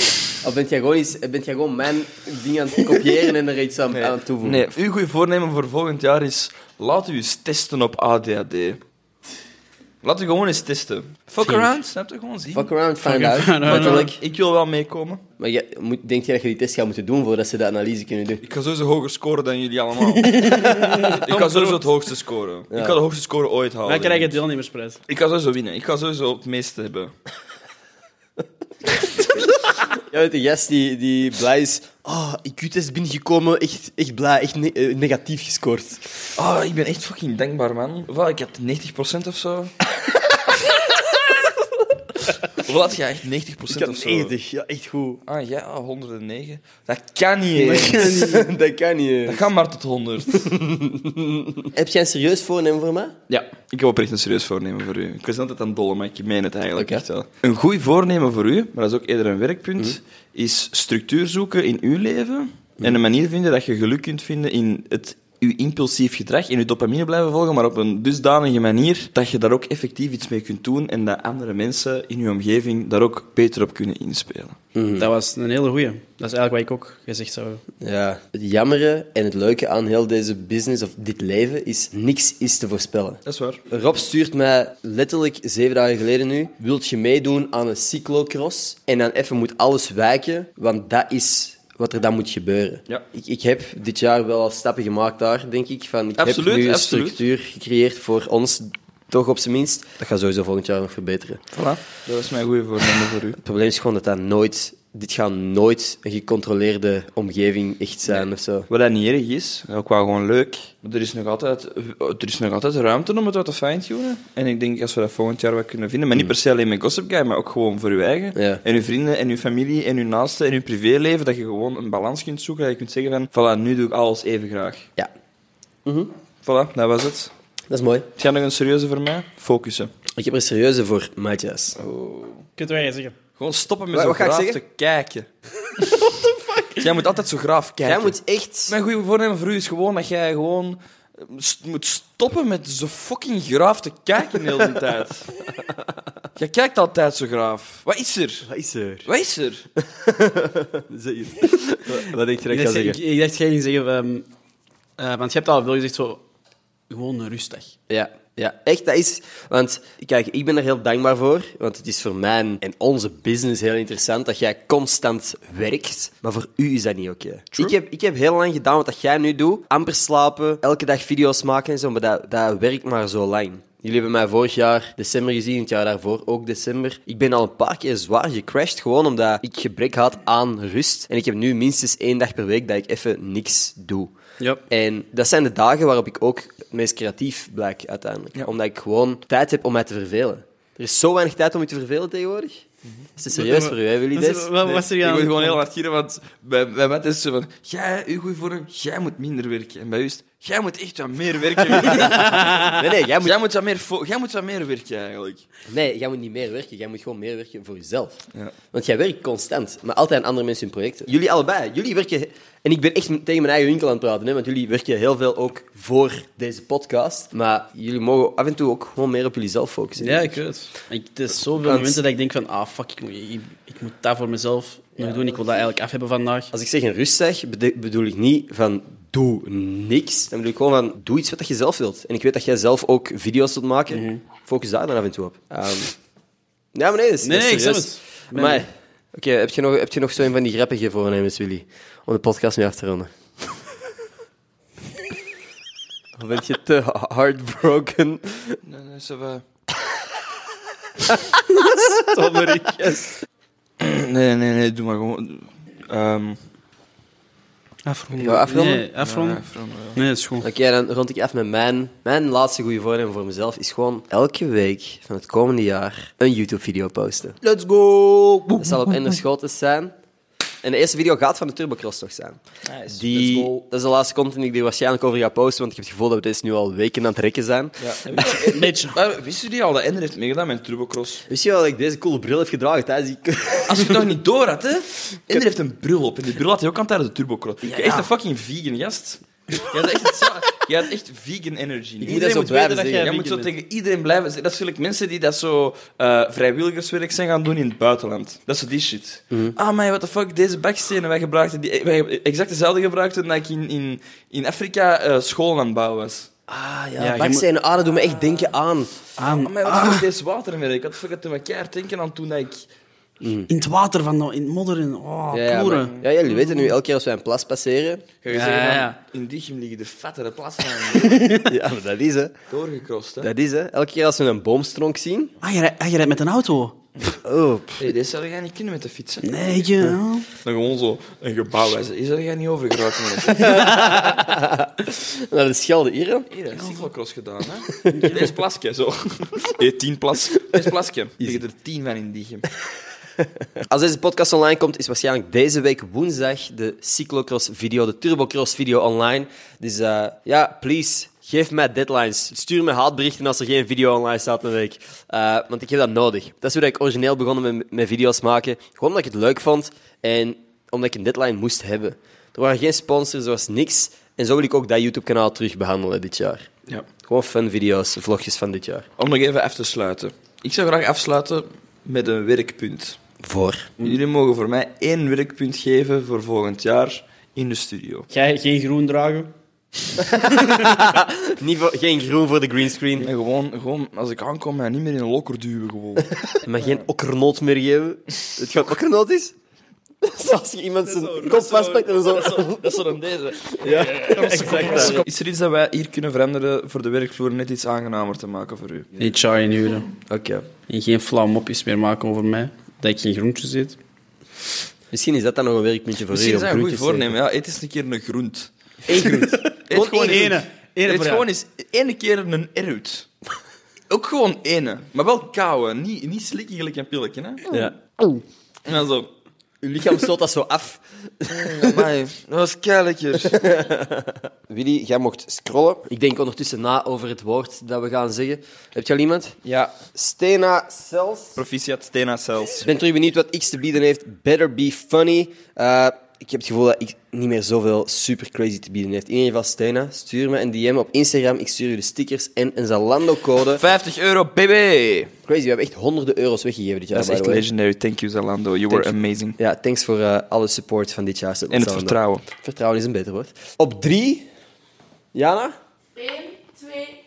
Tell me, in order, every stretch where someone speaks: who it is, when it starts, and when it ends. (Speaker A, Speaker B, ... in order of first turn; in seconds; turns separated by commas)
Speaker A: 0.4-4.7, Speaker B: 3.9-8.8, Speaker B: 10.0-12.7, Speaker A: 12.5-14.2, Speaker C: 13.0-14.2, Speaker B: 13.6-15.2, Speaker A: 15.4-18.4, Speaker B: 18.4-24.4, Speaker C: 20.2-21.9, Speaker A: 22.7-23.0, Speaker C: 23.9-25.0, Speaker B: 25.1-27.1, Speaker A: 29.9-36.2, Speaker B: 36.4-39.7, Speaker B: 42.5-44.3, Speaker A: 43.7-45.2, Speaker B: 45.2-48.3, Speaker A: 47.5-49.4, Speaker C: 47.7-48.5, Speaker B: 49.3-50.5, Speaker A: 50.4-53.1, Speaker B: 53.3-74.6, Speaker A: 56.8-57.0, Speaker A: 74.7-75.1, Speaker C: 75.0-77.6, Speaker A: 77.8-101.4, Speaker B: 83.2-83.6, Speaker B: 96.2-97.2, Speaker B: 101.5-103.4, Speaker A: 103.4-108.7, Speaker B: 108.1-124.9, Speaker A: 118.3-118.6, Speaker A: 125.8-126.1, Speaker B: 126.4-127.3, Speaker A: 127.7-128.1, Speaker B: 128.2-129.9, Speaker A: 130.1-131.8, Speaker B: 131.8-132.4, Speaker C: 132.6-133.2, Speaker B: 133.4-135.3, Speaker A: 133.9-134.6, Speaker C: 136.2-136.7, Speaker B: 136.7-138.2, Speaker A: 137.8-138.8, Speaker B: 138.7-145.3, Speaker A: 145.6-145.9, Speaker B: 146.3-148.5, Speaker A: 148.4-149.1, Speaker B: 149.0-149.7, Speaker A: 149.8-153.0, Speaker C: 152.5-154.3, Speaker C: 155.0-156.2, Speaker C: 156.9-157.8, Speaker A: 157.9-184.1, Speaker A: 184.7-194.5, Speaker C: 193.3-195.6, Speaker B: 194.6-205.4, Speaker C: 202.0-202.7, Speaker A: 202.6-203.3, Speaker A: 205.7-208.2, Speaker A: 208.7-220.4, Speaker C: 220.0-226.5, Speaker A: 221.6-222.0, Speaker A: 225.0-225.7, Speaker A: 226.5-235.9, Speaker C: 233.9-234.2, Speaker A: 236.7-243.1, Speaker C: 237.2-238.6, Speaker A: 246.2-248.6, Speaker B: 248.6-249.4, Speaker A: 251.0-253.0, Speaker C: 251.6-253.0, Speaker B: 253.8-256.4, Speaker C: 257.8-259.4, Speaker A: 258.1-258.8, Speaker B: 258.9-260.0, Speaker C: 259.9-260.4, Speaker A: 260.4-267.4, Speaker B: 267.4-268.1, Speaker A: 268.5-269.9, Speaker A: 270.6-277.9, Speaker B: 272.6-273.5, Speaker B: 277.8-281.2, Speaker C: 278.2-278.9, Speaker A: 281.3-284.1, Speaker B: 283.6-306.3, Speaker A: 292.0-293.5, Speaker A: 299.3-299.6, Speaker A: 306.5-309.1, Speaker C: 307.0-307.4, Speaker B: 308.0-308.5, Speaker C: 309.2-310.1, Speaker B: 309.2-312.7, Speaker A: 313.2-313.5, Speaker C: 313.5-315.9, Speaker A: 315.3-318.1, Speaker B: 318.2-321.3, Speaker C: 318.3-318.9, Speaker C: 320.9-321.5, Speaker A: 321.4-322.3, Speaker B: 322.5-323.3, Speaker A: 323.2-325.3, Speaker C: 325.4-326.8, Speaker A: 327.2-327.9, Speaker B: 327.8-329.3, Speaker C: 329.2-330.3, Speaker B: 330.4-333.9, Speaker A: 333.4-336.3, Speaker C: 333.5-334.1, Speaker B: 336.3-342.4, Speaker C: 336.6-336.9, Speaker A: 337.7-338.1, Speaker A: 343.6-368.9, Speaker B: 369.0-373.0, Speaker A: 373.2-373.8, Speaker B: 373.8-378.1, Speaker C: 378.1-379.3, Speaker A: 380.0-383.1, Speaker B: 383.0-386.2, Speaker A: 386.2-389.3, Speaker A: 390.0-392.8, Speaker B: 390.8-399.0, Speaker A: 393.6-395.1, Speaker C: 394.3-394.9, Speaker C: 399.0-399.9, Speaker A: 400.1-400.5, Speaker C: 400.7-403.8, Speaker A: 404.9-407.1, Speaker B: 406.1-408.5, Speaker A: 408.9-410.1, Speaker C: 408.9-411.3, Speaker B: 409.6-413.1, Speaker B: 413.9-417.5, Speaker A: 417.5-418.2, Speaker B: 418.6-419.1, Speaker A: 419.6-421.9, Speaker B: 421.3-423.5, Speaker A: 423.2-429.4, Speaker B: 429.4-429.7, Speaker A: 429.9-431.4, Speaker B: 431.4-432.7, Speaker A: 432.6-443.6, Speaker B: 443.5-445.1, Speaker A: 445.3-447.4, Speaker B: 446.9-449.4, Speaker A: 448.7-454.3, Speaker B: 451.5-452.2, Speaker A: 455.1-455.5